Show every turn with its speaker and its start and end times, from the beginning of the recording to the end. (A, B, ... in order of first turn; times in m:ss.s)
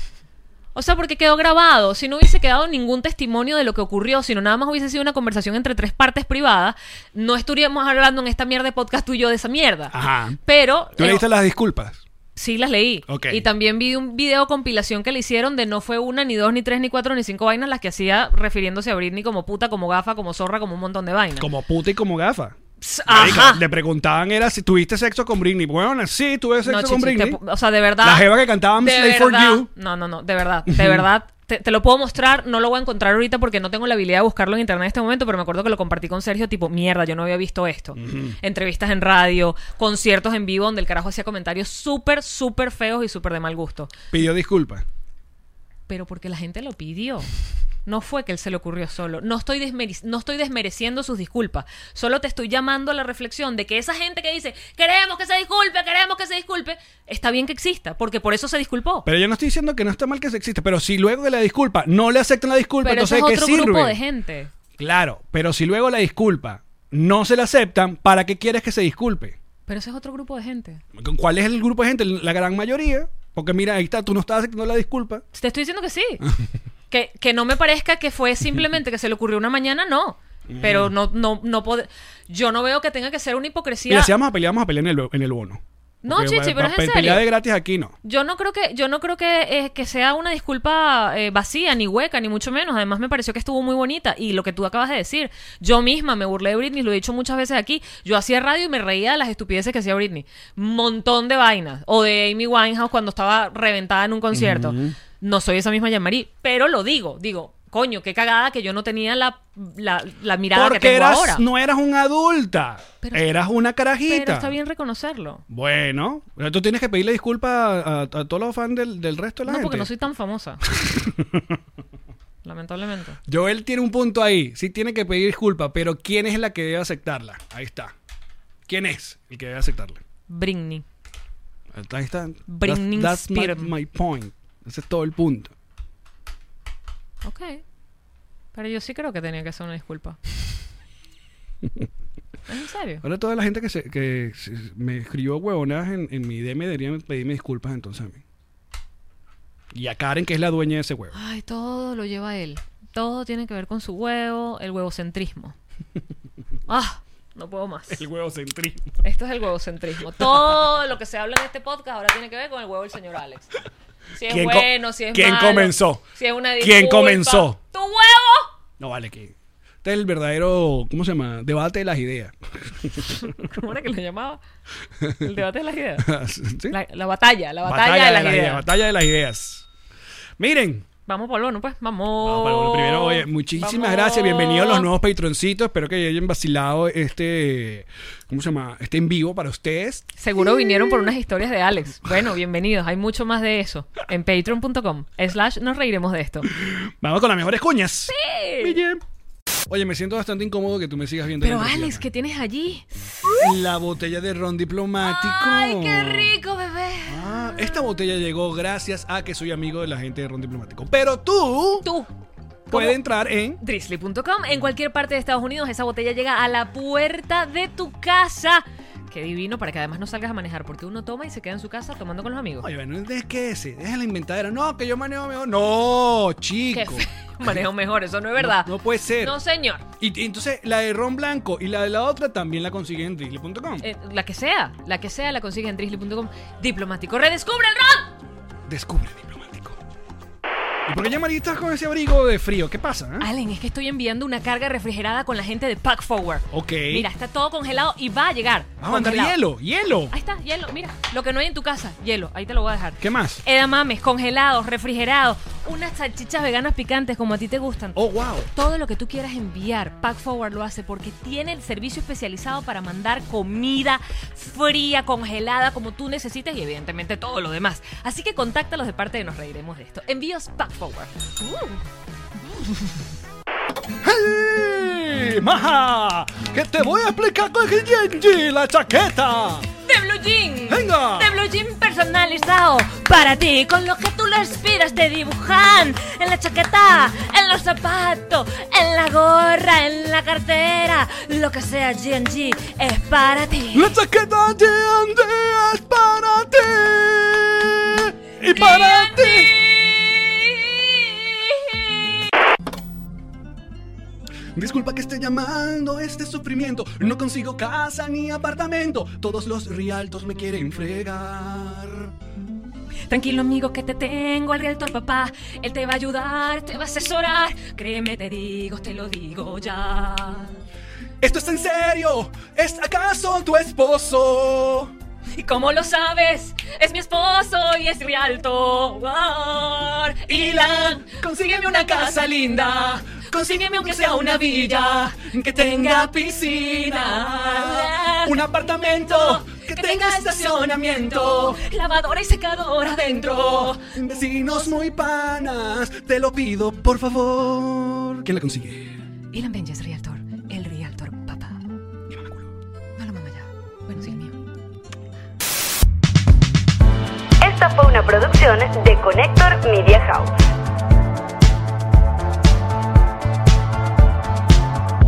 0:00.8-0:09.9 A
0:09.9-0:10.4 B
0:10.4-0:11.3 A
0:11.0-0:12.0 B
0:12.4-0:21.5 A
0:13.1-0:13.4 B
0:21.4-0:27.4 B
0:22.8-0:23.6 A
0:26.6-0:28.3 A
0:28.0-0:29.7 B
0:28.8-0:43.9 A
0:30.7-0:31.0 B
0:38.0-0:38.4 B
0:44.1-0:44.8 B
0:45.9-0:47.3 A
0:47.9-0:59.1 A
0:59.1-1:04.0 B
1:02.8-1:04.5 A
1:04.8-1:09.4 B
1:09.7-1:10.8 A
1:11.0-1:15.2 B
1:15.3-1:16.2 A
1:16.9-1:24.1 A
1:20.5-1:20.9 B
1:23.9-1:28.0 B
1:26.0-1:27.3 A
1:28.0-1:51.4 A
1:44.3-1:45.0 B
1:50.5-1:54.6 B
1:53.0-1:53.3 A
1:54.1-1:55.4 A
1:55.5-1:59.9 B
1:59.4-2:00.6 A
2:00.7-2:01.6 B
2:02.4-2:03.2 A
2:03.3-2:07.9 B
2:08.7-2:10.0 B
2:10.3-2:10.8 A
2:11.7-2:15.5 B
2:12.5-2:13.7 A
2:17.2-2:17.6 A
2:18.5-2:20.2 A
2:22.5-2:23.0 A
2:23.0-2:28.2 B
2:29.7-2:31.2 B
2:31.1-2:35.6 A
2:36.7-2:38.0 A
2:37.9-2:39.0 B
2:39.0-2:43.5 A
2:40.1-2:40.5 B
2:44.2-2:48.5 A
2:44.3-2:46.0 B
2:46.6-2:47.6 B
2:48.8-2:53.3 B
2:53.2-2:54.4 A
2:55.0-2:55.3 B
2:55.2-2:56.1 A
2:56.0-2:56.8 B
2:56.7-2:58.6 A
2:57.6-2:59.7 B
3:00.4-3:00.9 B
3:01.1-3:04.9 A
3:02.2-3:11.1 B
3:10.2-3:16.5 A
3:16.6-3:19.0 B
3:18.1-3:18.8 A
3:19.7-3:22.0 B
3:21.4-3:23.5 A
3:23.4-3:26.3 B
3:25.0-3:27.8 A
3:27.1-3:31.9 B
3:31.8-3:32.1 A
3:32.7-3:33.6 B
3:32.7-3:33.0 A
3:33.6-3:42.7 A
3:42.6-3:47.5 B
3:46.7-3:49.8 A
3:48.4-3:49.4 B
3:50.0-3:53.8 B
3:53.8-3:58.1 A
3:58.7-3:59.8 B
4:00.9-4:03.3 B
4:03.2-4:09.4 A
4:06.5-4:07.1 B
4:08.8-4:10.1 B
4:10.1-4:31.8 A
4:13.0-4:13.4 B
4:18.0-4:18.5 B
4:34.0-4:39.7 B
4:39.9-4:53.9 A
4:40.7-4:41.4 B
4:53.7-4:59.6 B
4:58.4-5:02.1 A
5:04.6-5:12.1 B
5:13.1-5:20.6 A
5:21.2-5:24.9 B
5:25.4-5:38.4 A
5:30.3-5:41.6 B
5:39.1-5:43.9 A
5:43.7-5:48.9 B
5:49.3-5:51.6 A
5:52.1-5:52.5 B
5:53.0-5:54.4 A
5:57.4-6:00.3 C